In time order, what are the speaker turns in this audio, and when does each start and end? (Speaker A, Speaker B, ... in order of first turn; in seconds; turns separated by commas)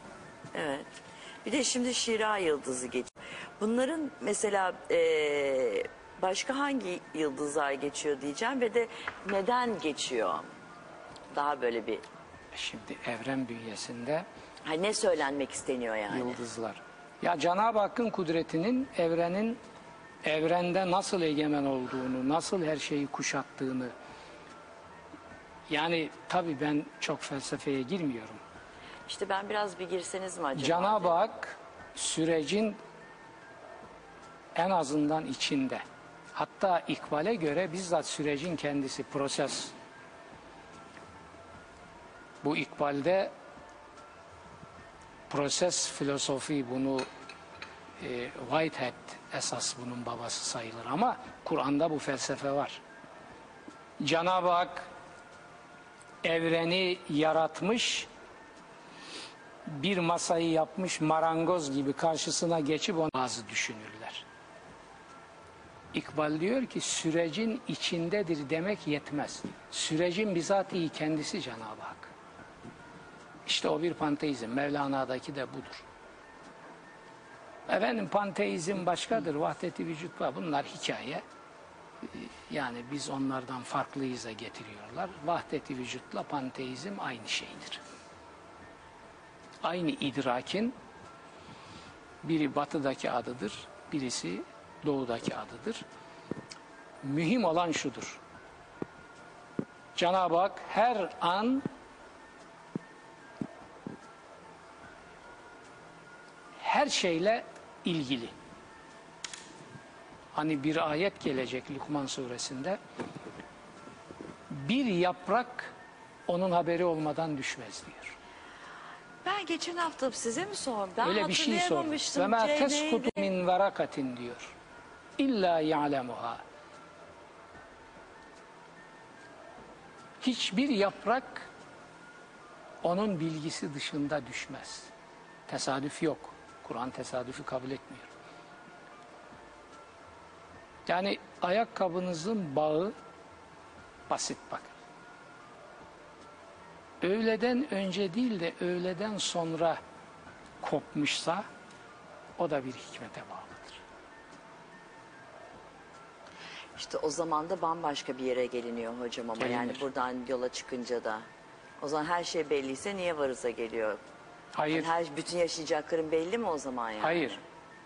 Speaker A: 0.5-0.9, Speaker A: 1.4-10.4, Speaker A: 11.3-12.0, Speaker B: 12.5-14.2, Speaker A: 14.6-16.4, Speaker B: 16.1-19.6, Speaker B: 20.2-23.9, Speaker B: 25.7-28.4, Speaker A: 29.1-31.3, Speaker B: 30.6-32.8, Speaker B: 34.5-35.8, Speaker B: 36.3-39.7, Speaker B: 42.4-43.3, Speaker B: 45.3-47.1, Speaker B: 48.0-52.8, Speaker B: 54.0-54.9, Speaker B: 56.2-58.1, Speaker B: 59.6-64.2, Speaker B: 65.9-72.1, Speaker B: 73.5-75.8, Speaker B: 77.7-81.2, Speaker B: 82.0-87.8, Speaker B: 89.6-90.7, Speaker B: 92.2-95.8, Speaker B: 97.0-98.2, Speaker B: 100.0-101.6, Speaker B: 106.6-108.3, Speaker B: 110.3-112.8, Speaker B: 114.5-115.7, Speaker B: 116.3-118.2, Speaker A: 119.2-123.3, Speaker B: 121.0-124.5, Speaker B: 125.2-126.4, Speaker B: 130.2-131.5, Speaker B: 132.8-134.9, Speaker B: 135.5-138.1, Speaker B: 140.8-142.9, Speaker B: 144.1-144.7, Speaker B: 147.0-149.8, Speaker B: 150.6-151.4, Speaker B: 152.4-153.8, Speaker A: 156.8-161.2, Speaker B: 159.4-159.8, Speaker A: 161.8-164.0, Speaker B: 164.5-164.9, Speaker A: 164.7-167.4, Speaker B: 167.0-167.4